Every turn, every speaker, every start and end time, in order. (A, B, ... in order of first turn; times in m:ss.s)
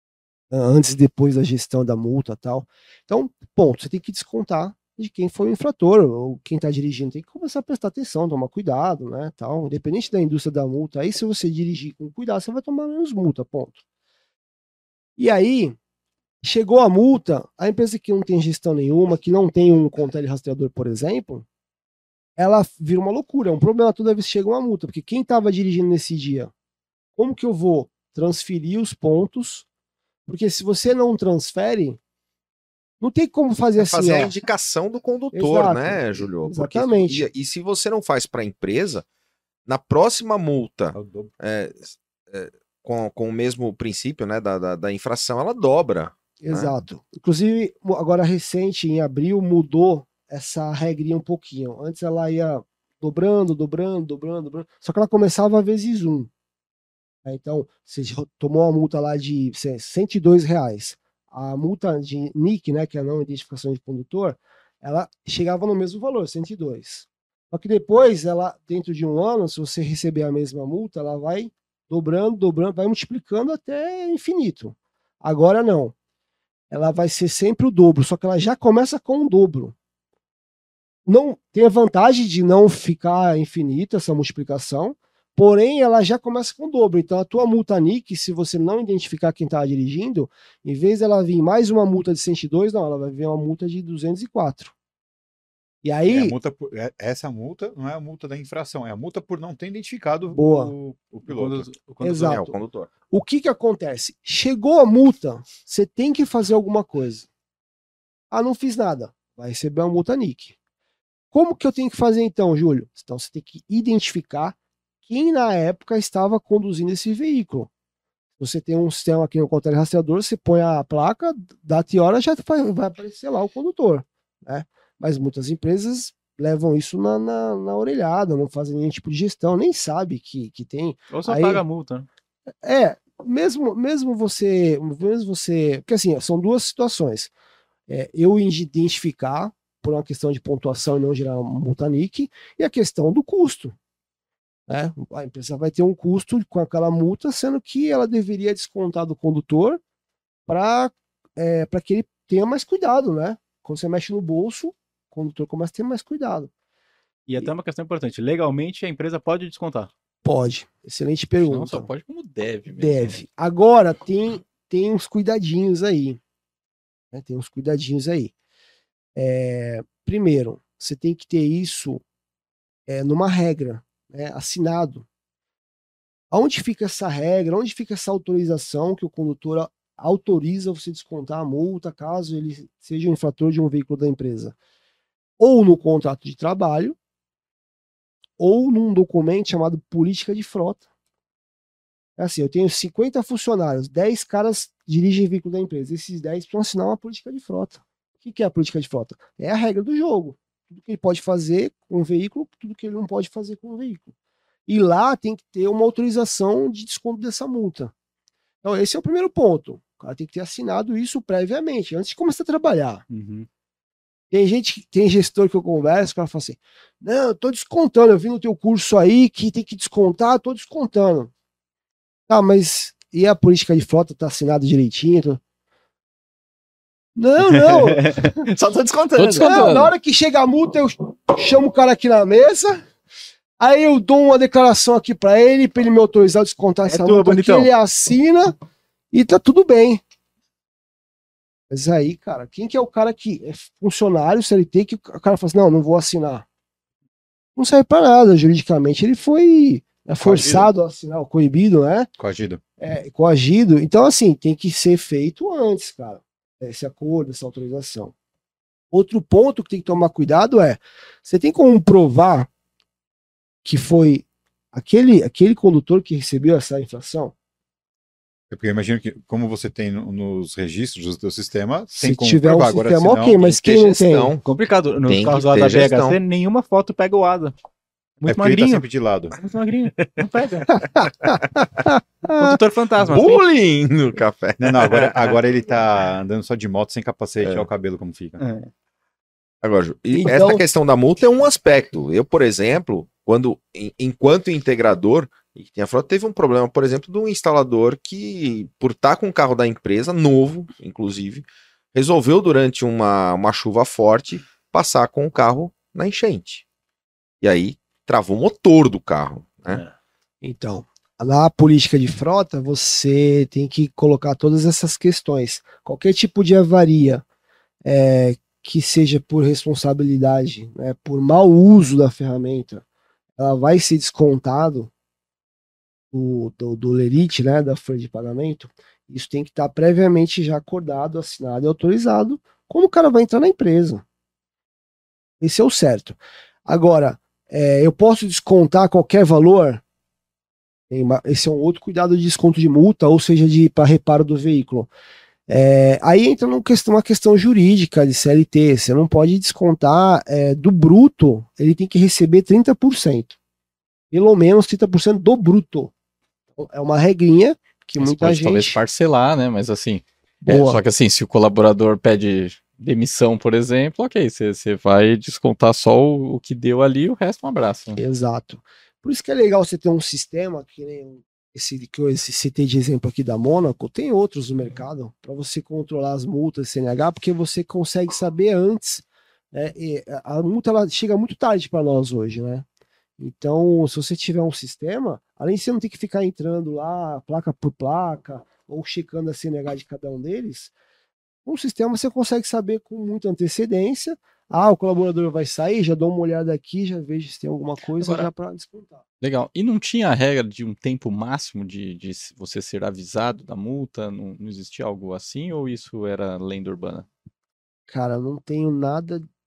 0:00.5-0:13.8 A
0:15.2-0:15.8 A
0:16.4-0:21.4 A
0:22.4-0:26.5 A
0:27.2-0:29.6 A
0:30.3-0:32.0 A
0:33.0-0:34.3 A
0:33.8-0:39.0 B
0:35.3-0:37.3 A
0:39.6-0:46.7 B
0:40.9-0:41.3 C
0:46.4-0:56.3 A
0:57.2-1:15.9 A
1:16.7-1:19.7 A
1:21.0-1:34.7 A
1:35.8-1:36.3 A
1:36.1-1:41.7 C
1:40.3-1:40.7 A
1:41.2-1:42.4 D
1:42.0-1:42.6 A
1:42.2-1:42.9 B
1:43.1-1:47.3 A
1:48.3-1:50.5 A
1:51.3-1:57.7 A
1:58.4-2:11.6 A
2:11.1-2:12.1 D
2:12.6-2:17.3 A
2:17.9-2:23.8 A
2:24.7-2:29.8 A
2:30.5-2:36.5 A
2:37.3-2:39.9 D
2:40.2-2:41.9 A
2:41.4-2:43.2 E
2:42.8-2:46.2 A
2:47.1-2:48.3 A
2:49.2-2:52.0 A
2:52.9-2:55.1 A
2:56.3-3:04.5 A
3:05.4-3:07.0 A
3:08.4-3:10.8 A
3:12.2-3:24.1 A
3:24.7-3:27.9 A
3:28.6-3:33.0 A
3:33.1-3:33.5 D
3:34.3-3:41.3 A
3:42.3-3:45.4 A
3:47.2-3:48.5 A
3:47.4-3:49.6 D
3:49.2-3:49.9 E
3:49.4-3:52.8 A
3:53.6-3:58.5 A
3:56.8-3:57.7 D
3:59.1-4:00.0 A
4:01.7-4:06.4 A
4:07.6-4:12.1 A
4:10.3-4:10.6 C
4:12.2-4:12.6 C
4:12.8-4:18.1 A
4:18.9-4:22.5 A
4:23.6-4:27.3 A
4:28.5-4:33.4 C
4:32.0-4:34.3 A
4:33.4-4:34.4 B
4:34.4-4:37.5 D
4:35.0-4:36.2 B
4:38.2-4:38.8 D
4:38.3-4:39.3 C
4:39.4-4:40.9 D
4:41.0-4:42.6 A
4:42.2-4:43.4 D
4:43.0-4:45.3 B
4:44.6-4:48.4 C
4:47.4-4:47.7 B
4:48.4-4:48.7 D
4:49.6-5:06.6 B
4:50.1-4:50.6 A
5:07.4-5:09.8 B
5:09.7-5:09.9 D
5:10.4-5:17.2 A
5:17.8-5:22.8 A
5:23.4-5:24.9 A
5:26.1-5:34.0 A
5:35.4-5:39.8 A
5:40.9-5:44.9 A
5:45.5-5:53.3 A
5:54.1-5:55.9 A
5:56.6-5:58.8 A
5:58.0-6:08.0 E
6:00.4-6:00.8 A
6:08.0-6:22.6 A
6:23.2-6:30.7 A
6:31.4-6:39.0 A
6:38.0-6:38.3 E
6:39.2-6:47.1 E
6:47.9-6:49.2 A